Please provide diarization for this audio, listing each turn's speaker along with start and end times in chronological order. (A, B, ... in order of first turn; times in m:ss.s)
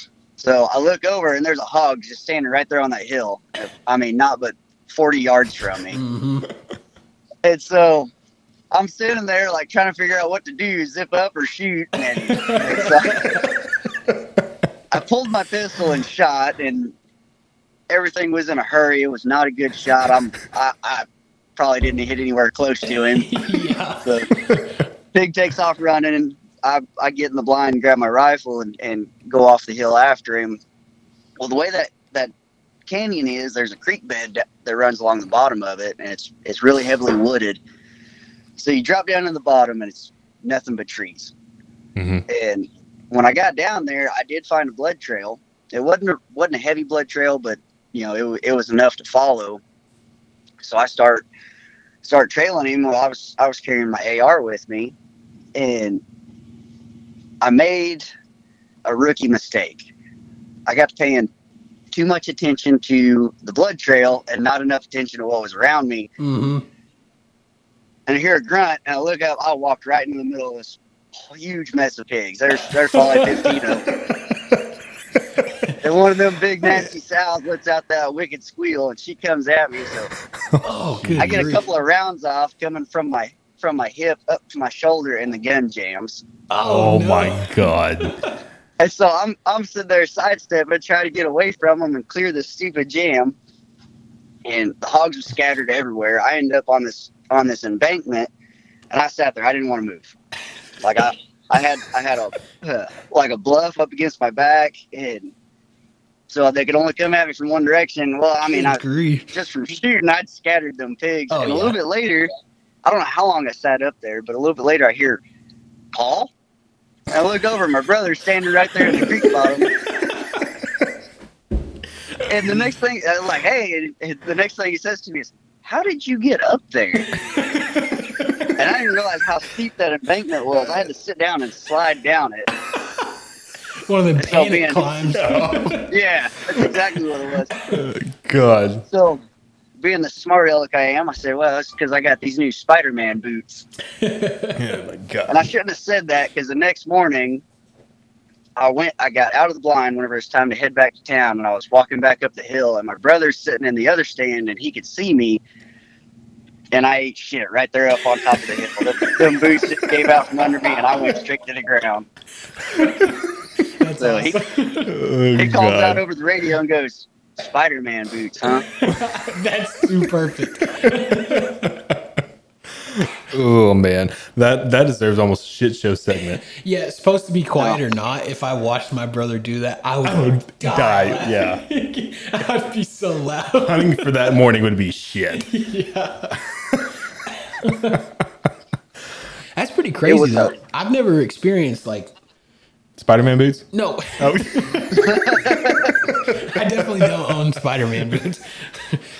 0:00.4-0:06.0 A
0:05.9-0:06.5 B
0:07.4-0:08.1 A
0:08.7-0:13.4 A
0:12.0-0:13.7 B
0:14.9-0:16.9 A
0:17.9-0:21.0 A
0:21.6-0:23.4 A
0:22.8-0:24.8 B
0:25.1-0:30.6 A
0:31.4-0:32.3 A
0:32.9-0:37.6 A
0:38.6-0:41.3 A
0:42.0-0:42.2 C
0:42.3-0:49.6 A
0:50.6-0:51.2 A
0:52.0-0:54.9 A
0:55.5-0:56.0 A
0:57.4-0:58.1 A
0:58.8-0:59.9 A
1:00.7-1:01.3 A
1:01.9-1:06.1 A
1:06.2-1:06.6 B
1:08.1-1:13.9 A
1:12.9-1:14.2 B
1:15.4-1:15.8 B
1:15.8-1:20.1 A
1:20.5-1:21.5 C
1:20.6-1:21.6 B
1:21.2-1:26.2 A
1:26.5-1:28.4 B
1:26.6-1:28.2 C
1:28.8-1:33.3 A
1:34.4-1:38.3 A
1:38.9-1:40.1 A
1:40.8-1:45.3 A
1:46.3-1:52.3 A
1:48.5-1:49.4 B
1:51.3-1:51.8 B
1:52.8-1:55.2 A
1:55.9-1:56.3 A
1:57.1-1:59.7 A
1:58.8-2:00.6 B
2:02.2-2:02.5 B
2:02.2-2:07.1 A
2:07.1-2:08.6 B
2:08.6-2:12.5 A
2:13.7-2:15.9 B
2:14.2-2:14.9 A
2:15.1-2:15.8 C
2:15.9-2:17.5 A
2:17.7-2:18.8 C
2:18.9-2:19.2 A
2:19.8-2:23.6 A
2:24.0-2:24.6 B
2:24.6-2:25.5 C
2:25.3-2:27.4 A
2:28.6-2:35.4 A
2:36.7-2:42.1 A
2:39.0-2:39.9 B
2:40.6-2:40.9 B
2:42.7-2:44.9 B
2:44.0-2:44.4 A
2:44.8-2:46.0 C
2:45.4-2:48.7 A
2:48.6-2:51.7 B
2:50.8-2:52.0 C
2:52.9-2:56.4 C
2:56.4-3:04.2 B
3:00.0-3:01.6 C
3:03.6-3:05.5 C
3:05.4-3:06.5 B
3:07.2-3:08.1 B
3:09.6-3:12.1 B
3:10.1-3:10.5 A
3:13.0-3:17.1 C
3:13.7-3:19.0 B